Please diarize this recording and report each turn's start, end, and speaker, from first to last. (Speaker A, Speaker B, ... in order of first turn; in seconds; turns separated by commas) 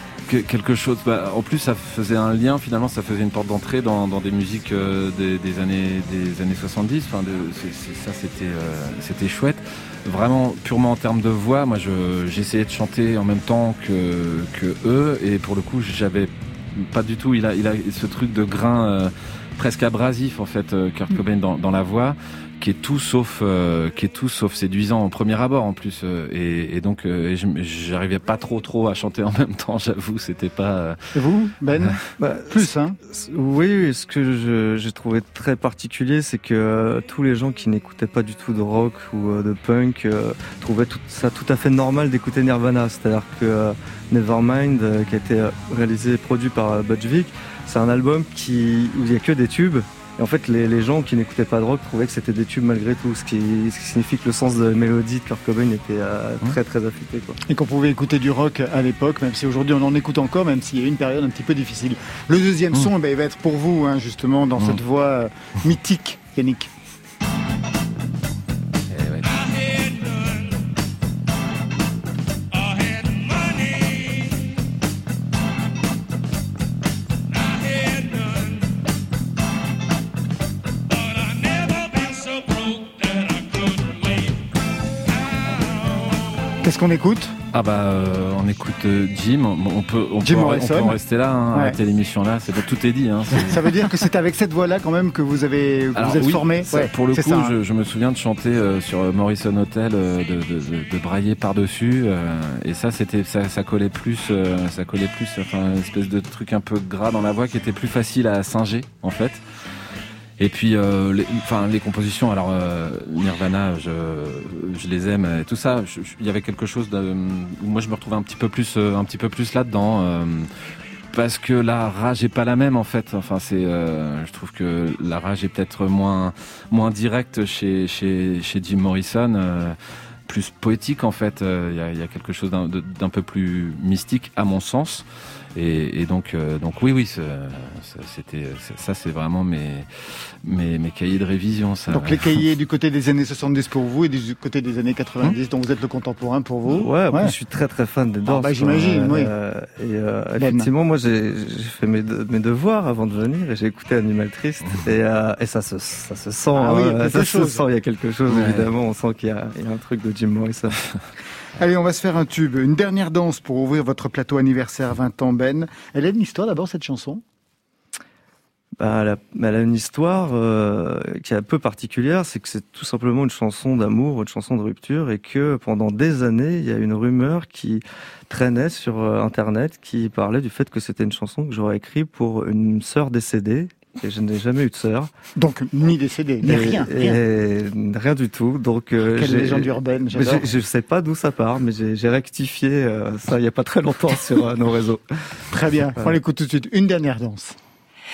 Speaker A: 0.3-31.0, Speaker B: 31.1-33.0, Speaker C: 32.2-57.4, Speaker B: 57.5-66.7, Speaker A: 68.9-69.4, Speaker B: 86.6-87.3, Speaker A: 87.5-93.7, Speaker B: 90.2-91.0, Speaker B: 93.3-97.5, Speaker A: 95.9-109.4, Speaker A: 110.4-120.5, Speaker A: 121.1-129.8, Speaker A: 130.3-139.9, Speaker A: 140.4-142.4, Speaker B: 141.9-147.3, Speaker C: 146.7-160.8, Speaker B: 148.3-149.3, Speaker B: 150.4-150.7, Speaker B: 156.5-157.6, Speaker A: 158.3-158.7, Speaker B: 161.6-167.2, Speaker C: 168.8-185.1, Speaker B: 185.3-187.2, Speaker C: 186.4-195.4, Speaker B: 189.0-190.5, Speaker B: 195.5-197.6